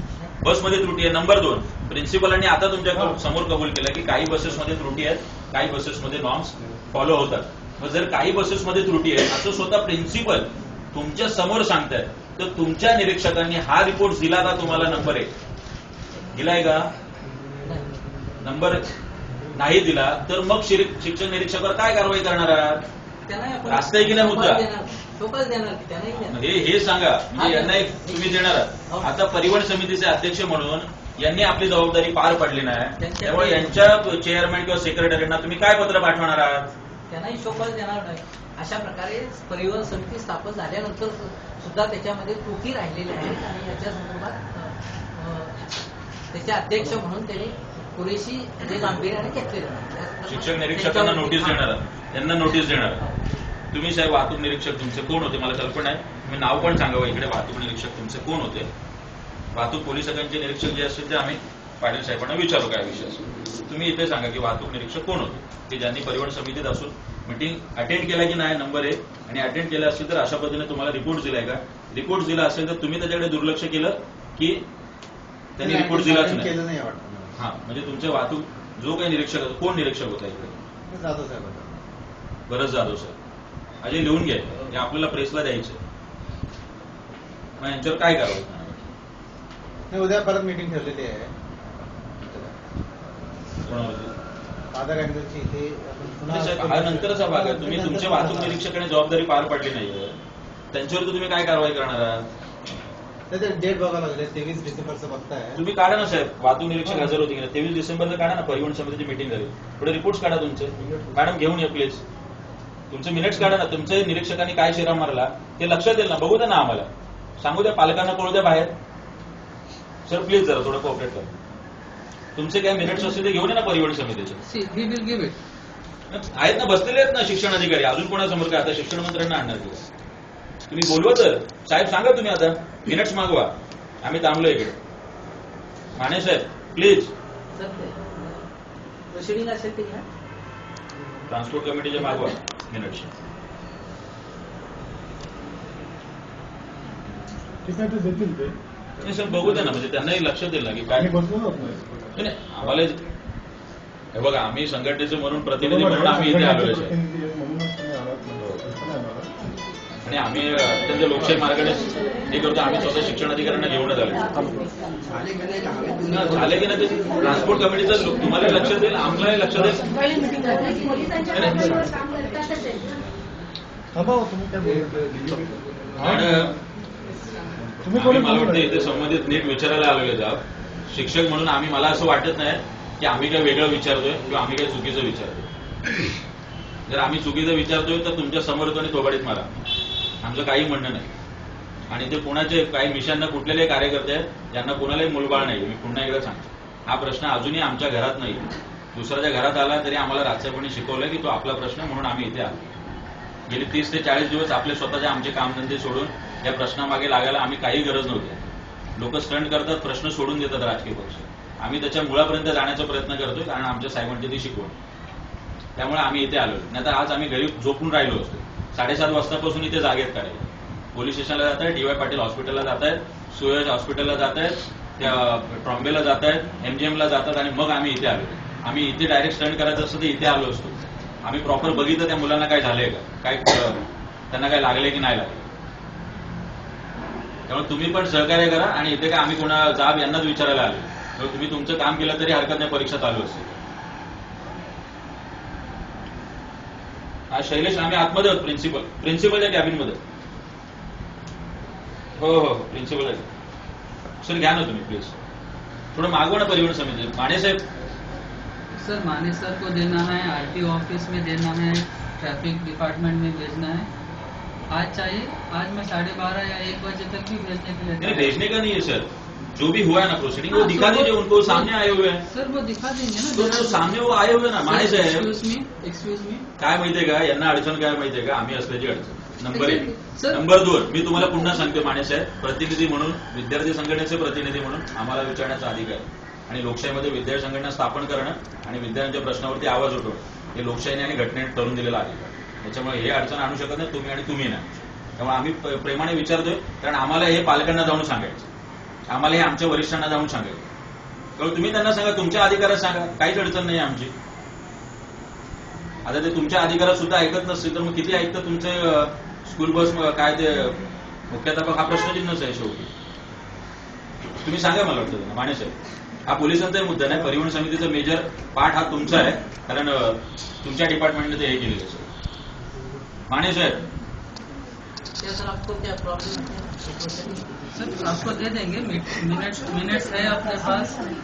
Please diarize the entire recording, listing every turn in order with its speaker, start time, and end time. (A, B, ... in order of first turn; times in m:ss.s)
0:00.4-0:15.3 A
0:16.3-0:16.9 A
0:17.6-0:18.0 B
0:18.4-0:18.9 A
0:19.6-0:22.8 A
0:23.2-0:26.4 B
0:23.6-0:24.6 A
0:26.2-0:36.7 A
0:27.3-0:29.1 B
0:33.0-0:33.8 B
0:37.1-0:45.6 B
0:46.3-0:51.6 B
0:50.3-0:53.0 A
0:53.0-0:53.2 B
0:53.7-0:58.7 A
0:59.5-1:14.6 A
1:15.6-1:16.5 A
1:15.6-1:17.2 C
1:17.4-1:20.6 A
1:20.9-1:21.7 C
1:22.5-1:23.2 A
1:23.8-1:25.8 A
1:27.6-1:28.9 A
1:29.9-1:31.3 C
1:33.6-1:34.1 A
1:34.7-1:38.6 C
1:36.3-1:40.1 A
1:40.7-1:42.2 A
1:43.3-1:45.6 C
1:45.5-1:52.0 A
1:50.8-1:51.1 D
1:52.9-1:56.9 A
1:57.4-1:58.7 A
2:00.1-2:01.3 A
2:02.4-2:04.4 A
2:04.4-2:05.4 E
2:06.1-2:09.8 A
2:10.7-2:14.8 A
2:16.0-2:17.1 A
2:17.5-2:18.4 B
2:19.1-2:20.0 B
2:21.3-2:23.1 A
2:27.6-2:28.5 D
2:29.0-2:31.1 A
2:31.0-2:32.1 D
2:32.2-2:33.0 A
2:34.1-2:37.0 A
2:35.6-2:39.3 D
2:38.4-2:38.6 A
2:40.0-2:44.2 A
2:46.1-2:49.8 A
2:48.4-2:48.8 D
2:49.5-2:50.4 D
2:51.3-2:51.8 A
2:53.9-2:56.5 D
2:56.0-2:56.5 A
2:57.8-2:58.7 D
2:57.9-3:05.4 A
3:06.9-3:09.5 A
3:10.2-3:11.0 A
3:11.9-3:22.6 A
3:23.5-3:34.8 A
3:35.8-3:55.5 A
3:57.5-4:03.6 A
4:07.3-4:10.0 A
4:12.2-4:13.3 A
4:14.2-4:15.2 A
4:15.9-4:17.6 A
4:18.8-4:23.9 E
4:24.7-4:28.4 E
4:28.0-4:32.2 A
4:30.5-4:34.0 E
4:33.3-4:35.3 A
4:34.6-4:36.4 E
4:36.6-4:58.5 A
4:39.5-4:40.4 E
4:59.1-5:00.7 A
5:01.4-5:04.1 A
5:06.0-5:10.8 A
5:11.3-5:12.9 A
5:14.4-5:15.7 A
5:16.2-5:22.1 A
5:23.3-5:23.8 A
5:25.2-5:27.5 B
5:27.7-5:31.0 E